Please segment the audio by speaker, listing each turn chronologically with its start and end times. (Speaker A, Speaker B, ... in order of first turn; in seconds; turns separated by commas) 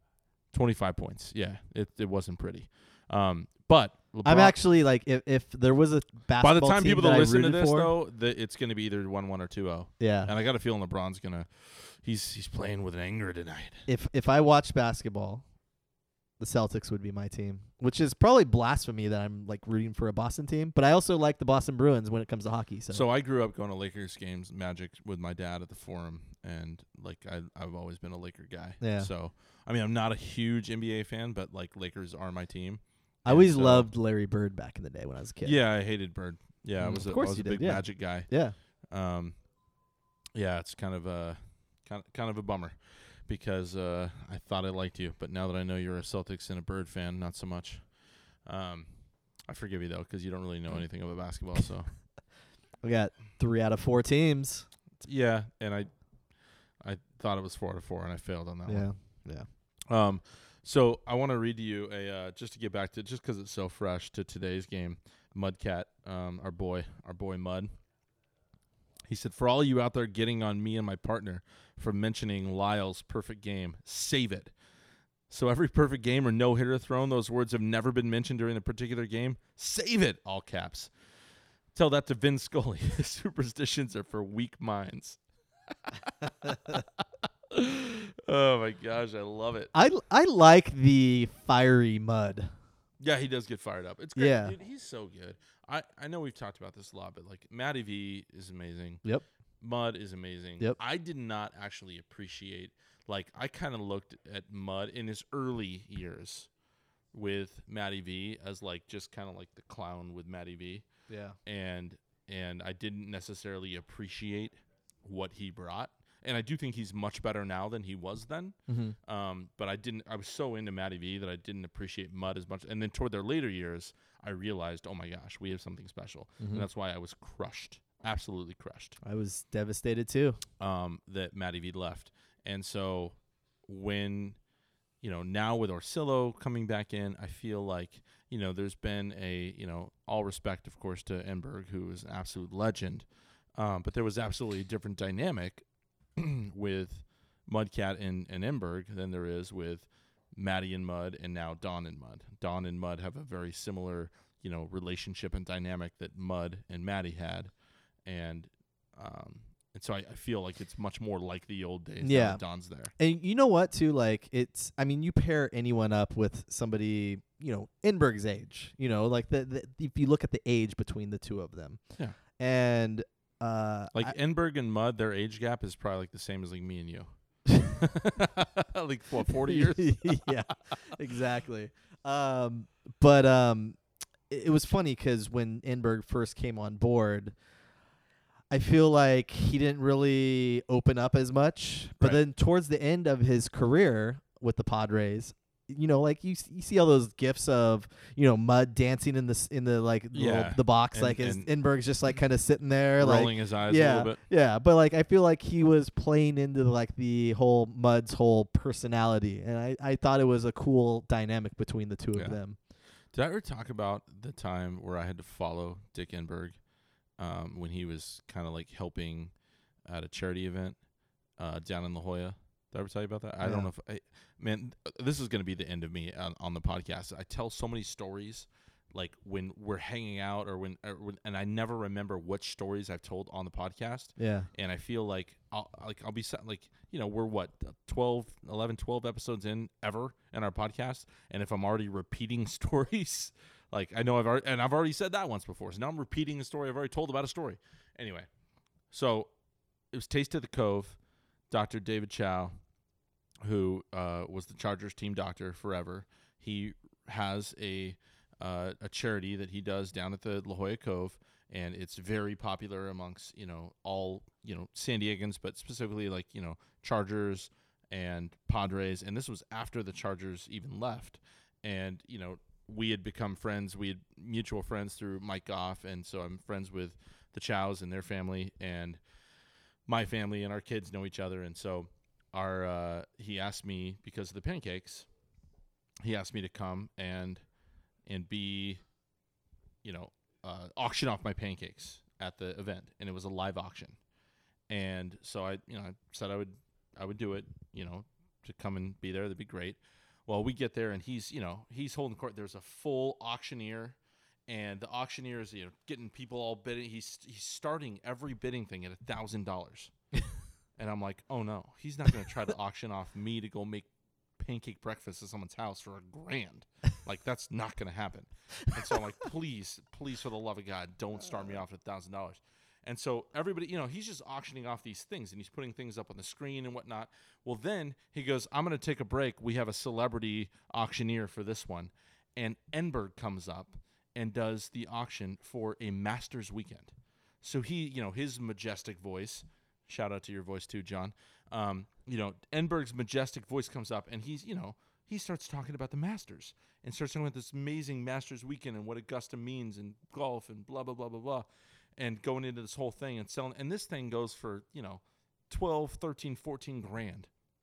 Speaker A: 0.5-4.6, Speaker B: 4.2-7.9, Speaker A: 6.4-13.8, Speaker B: 10.0-10.3, Speaker B: 13.9-15.4, Speaker B: 16.4-23.0, Speaker A: 22.9-33.9, Speaker B: 28.8-29.1, Speaker B: 33.2-35.6, Speaker A: 35.4-38.3, Speaker B: 36.8-38.6, Speaker A: 38.9-39.4, Speaker A: 40.4-47.9, Speaker A: 48.4-51.9, Speaker B: 52.8-54.7, Speaker A: 55.0-55.9, Speaker A: 56.8-58.9, Speaker B: 58.7-59.5, Speaker A: 59.9-67.7, Speaker A: 69.1-74.5, Speaker A: 75.3-80.9, Speaker A: 81.7-85.2, Speaker A: 85.9-89.7, Speaker B: 89.7-92.5, Speaker A: 93.0-99.0, Speaker B: 94.2-94.5, Speaker A: 99.6-106.5, Speaker A: 107.1-110.9, Speaker B: 111.1-111.4, Speaker A: 111.5-129.0, Speaker B: 118.7-119.0, Speaker B: 126.4-126.7, Speaker B: 129.0-130.4, Speaker A: 130.6-133.2, Speaker A: 133.7-134.4, Speaker A: 135.0-143.1, Speaker A: 143.6-145.6, Speaker A: 146.2-157.5, Speaker A: 158.1-162.9, Speaker B: 162.0-162.4, Speaker B: 163.0-174.2, Speaker A: 173.9-180.4, Speaker B: 179.4-183.8, Speaker B: 184.3-187.3, Speaker B: 188.5-212.6, Speaker A: 200.1-201.5, Speaker A: 203.0-204.2, Speaker A: 213.1-216.6, Speaker A: 217.2-219.3, Speaker A: 219.9-220.8, Speaker A: 221.4-248.3, Speaker B: 223.4-223.7, Speaker B: 234.2-234.5, Speaker A: 248.9-249.3, Speaker A: 249.9-251.0, Speaker A: 251.5-252.6, Speaker A: 253.4-279.0, Speaker A: 279.9-285.1, Speaker A: 286.0-287.4, Speaker A: 288.1-288.8, Speaker A: 289.8-294.0, Speaker A: 294.7-304.0, Speaker A: 304.5-309.9, Speaker A: 310.8-313.9, Speaker A: 314.4-351.5, Speaker A: 352.0-357.3